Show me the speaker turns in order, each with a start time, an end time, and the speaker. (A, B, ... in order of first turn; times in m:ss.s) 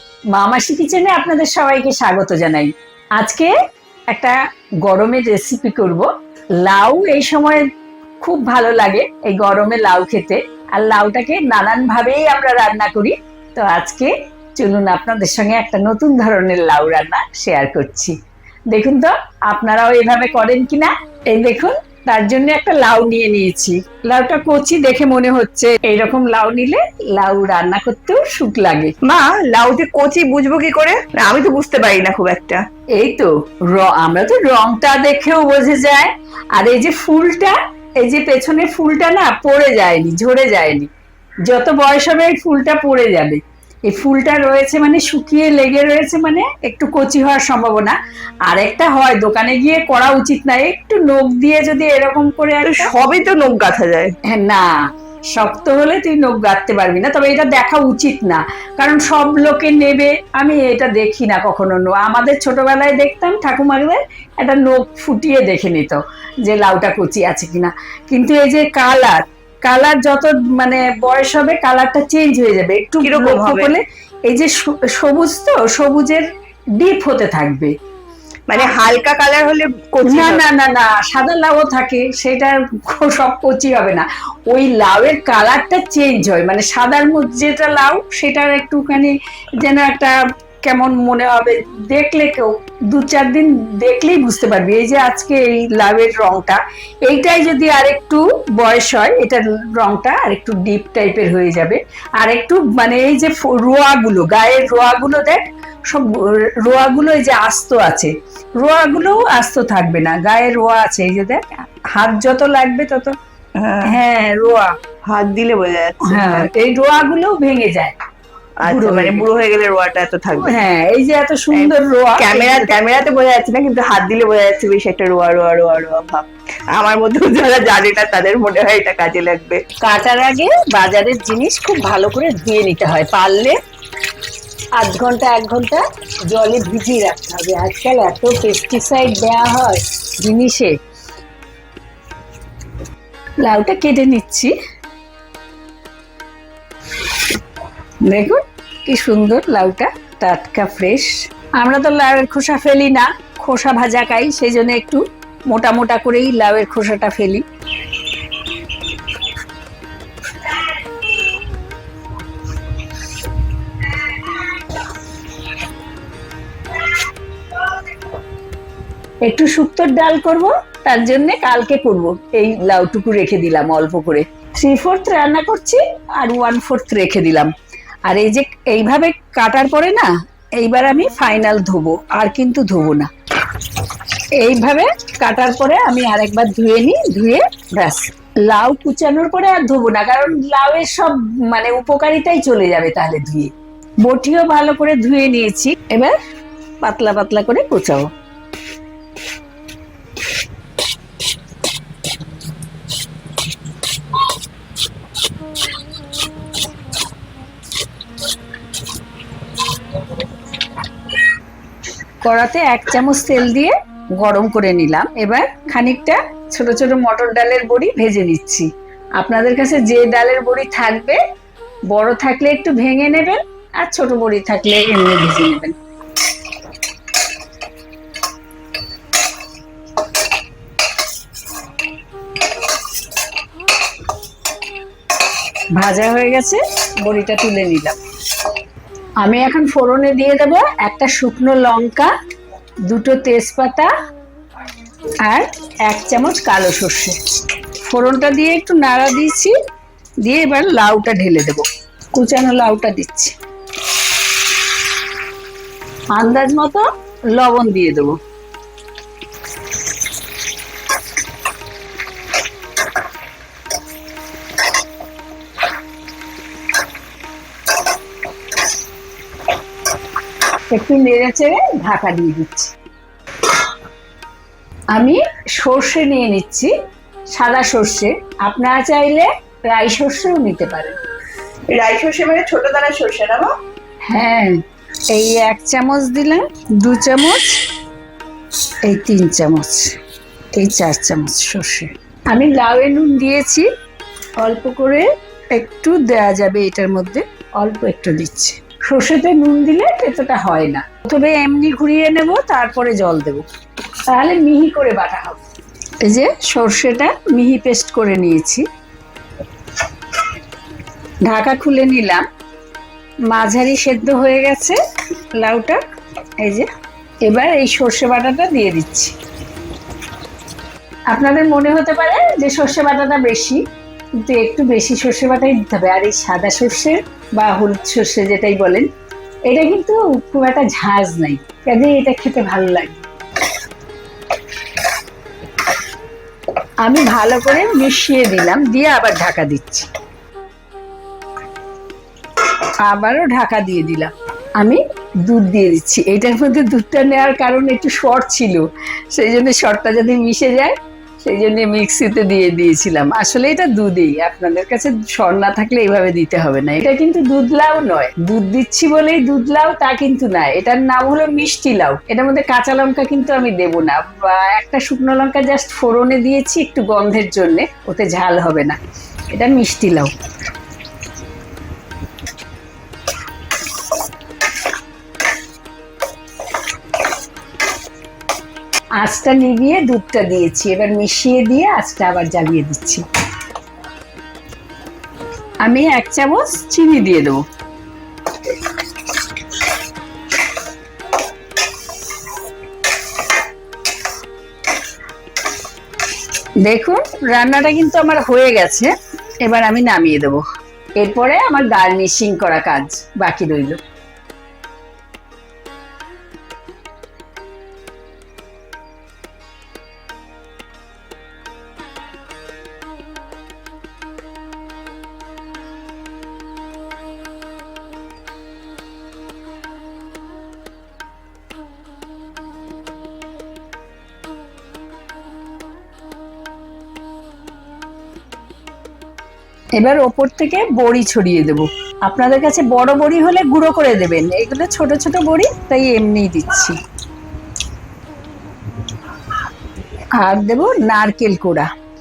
0:00.3-0:03.5 A
0:04.1-0:06.1 A
0:06.6-0:07.6 A
0:08.2-0:18.1 A
0:18.7-0:28.9 A
0:29.0-0:32.6 B
0:33.0-0:40.9 A
0:41.5-0:48.0 A
0:48.5-0:52.9 A
0:52.6-0:54.1 B
0:54.3-0:54.7 A
0:55.3-1:16.2 A
1:13.0-1:13.8 B
1:16.8-1:17.7 A
1:18.5-1:20.4 B
1:20.0-1:53.1 A
1:53.6-1:53.9 B
1:53.8-1:54.7 A
1:55.0-1:56.5 B
1:56.0-1:58.0 A
1:58.6-2:00.6 B
1:58.6-1:59.2 A
2:00.4-2:02.7 A
2:01.5-2:09.6 B
2:09.8-2:13.5 A
2:14.8-2:20.7 A
2:23.4-2:24.5 A
2:28.0-2:37.4 A
2:43.9-2:44.4 A
2:49.2-2:57.5 A
2:58.1-3:03.1 A
3:04.4-3:13.5 A
3:14.0-3:16.2 A
3:16.8-3:18.1 A
3:32.2-3:38.7 A
3:39.2-3:41.2 A
3:41.9-3:45.8 A
3:55.8-3:58.0 A
3:59.2-4:02.1 A
4:02.9-4:03.9 A
4:05.2-4:07.2 A
4:07.8-4:09.5 A
4:10.2-4:13.3 A
4:16.1-4:18.2 A
4:30.7-4:32.7 A
4:34.9-4:36.7 A
4:37.3-4:41.0 A
4:41.7-4:43.5 B
4:44.1-4:44.6 A
4:45.1-4:47.6 A
4:48.8-4:49.9 A
4:50.5-4:53.7 A
4:54.4-5:03.4 A
5:04.1-5:05.4 A
5:06.0-5:08.6 A
5:11.3-5:12.2 A
5:13.3-5:14.8 A
5:15.3-5:15.8 A
5:16.4-5:16.7 A
5:17.2-5:19.1 A
5:21.1-5:23.6 A
5:24.2-5:28.9 A
5:29.5-5:33.1 A
5:36.8-5:39.9 A
5:42.8-6:08.8 A
6:09.3-6:10.1 A
6:19.0-6:23.0 A
6:25.6-6:27.4 A
6:36.6-6:40.4 A
6:41.0-6:43.8 A
7:09.8-7:16.8 A
7:20.2-7:21.7 A